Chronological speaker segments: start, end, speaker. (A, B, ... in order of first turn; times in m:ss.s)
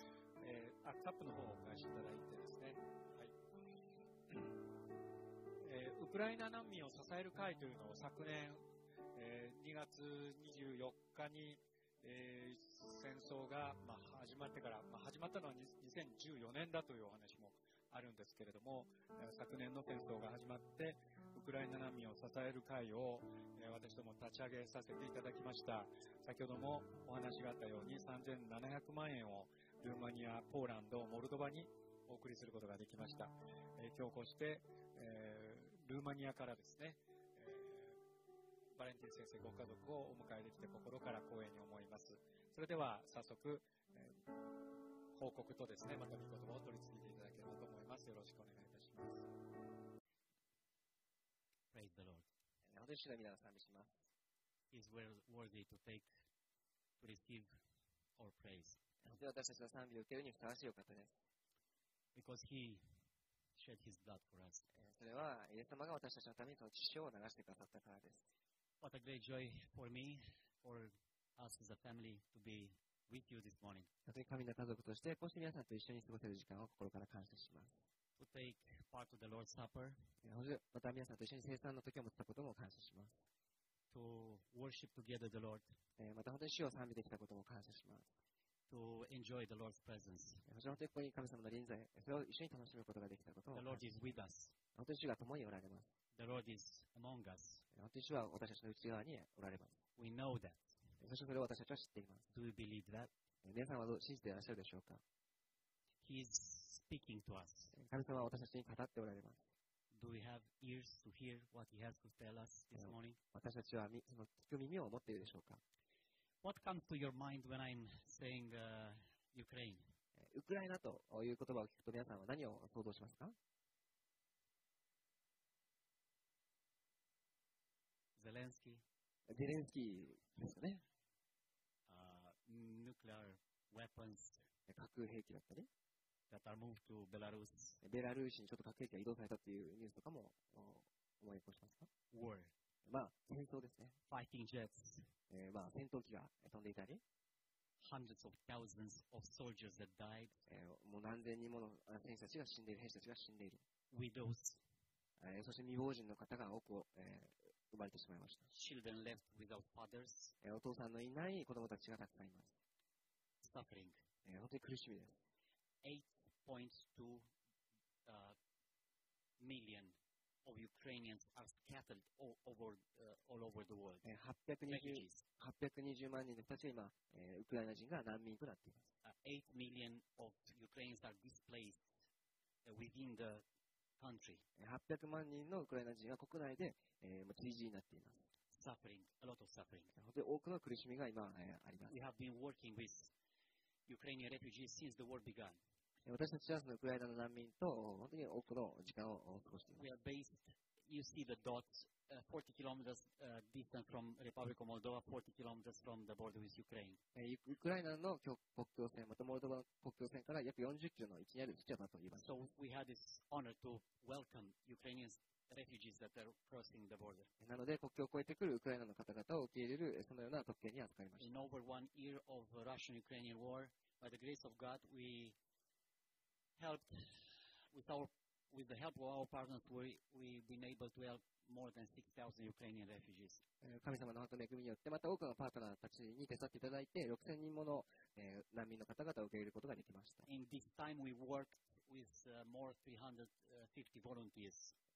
0:00.4-0:03.3 A
0:04.3-0:04.6 A
0:05.6-0:38.0 A
0:38.8-0:44.2 A
0:45.1-0:49.3 A
0:51.7-0:52.3 B
0:52.6-0:53.9 C
0:54.7-0:56.1 B
0:57.0-0:57.5 B
0:58.2-0:58.8 B
0:59.0-1:01.1 C
1:02.1-1:03.0 B
1:03.5-1:04.7 B
1:04.7-1:08.2 C
1:08.8-1:13.9 B
1:14.0-1:17.8 C
1:18.2-1:20.1 B
1:20.2-1:23.1 C
1:23.9-1:25.8 B
1:26.0-1:28.1 C
1:28.7-1:30.4 B
1:30.5-1:33.8 C
1:33.5-1:34.5 B
1:34.7-1:35.9 C
1:36.1-1:37.6 B
1:37.7-1:39.8 C
1:40.0-1:40.7 B
1:41.0-1:42.2 C
1:42.3-1:43.1 B
1:43.4-1:45.0 C
1:46.0-1:47.7 B
1:47.7-1:49.4 C
1:49.9-1:53.2 B
1:52.8-1:55.6 C
1:56.4-1:59.9 B
2:00.2-2:03.3 C
2:08.2-2:08.8 B
2:09.3-2:10.8 C
2:11.9-2:14.4 B
2:14.7-2:15.7 C
2:16.3-2:17.8 B
2:17.8-2:21.9 C
2:22.1-2:22.5 B
2:22.8-2:24.0 C
2:24.1-2:25.1 B
2:25.3-2:27.0 C
2:27.8-2:30.4 B
2:30.5-2:33.6 C
2:33.9-2:34.6 B
2:35.2-2:38.5 C
2:38.5-2:40.3 B
2:40.4-2:42.5 C
2:43.4-2:44.0 B
2:44.2-2:45.1 C
2:45.8-2:47.3 B
2:48.0-2:48.4 B
2:49.4-2:54.1 B
2:54.0-2:58.9 C
2:54.7-2:55.2 B
2:59.0-3:01.9 B
3:02.6-3:03.4 B
3:04.0-3:04.4 B
3:04.6-3:08.2 C
3:08.5-3:09.9 B
3:09.9-3:11.9 C
3:11.9-3:13.1 B
3:13.9-3:15.6 B
3:16.0-3:19.8 C
3:19.8-3:27.0 B
3:27.1-3:32.3 C
3:32.1-3:37.3 B
3:37.4-3:41.3 C
3:41.2-3:45.4 B
3:46.6-3:53.4 B
3:53.6-4:00.2 C
4:00.2-4:04.8 B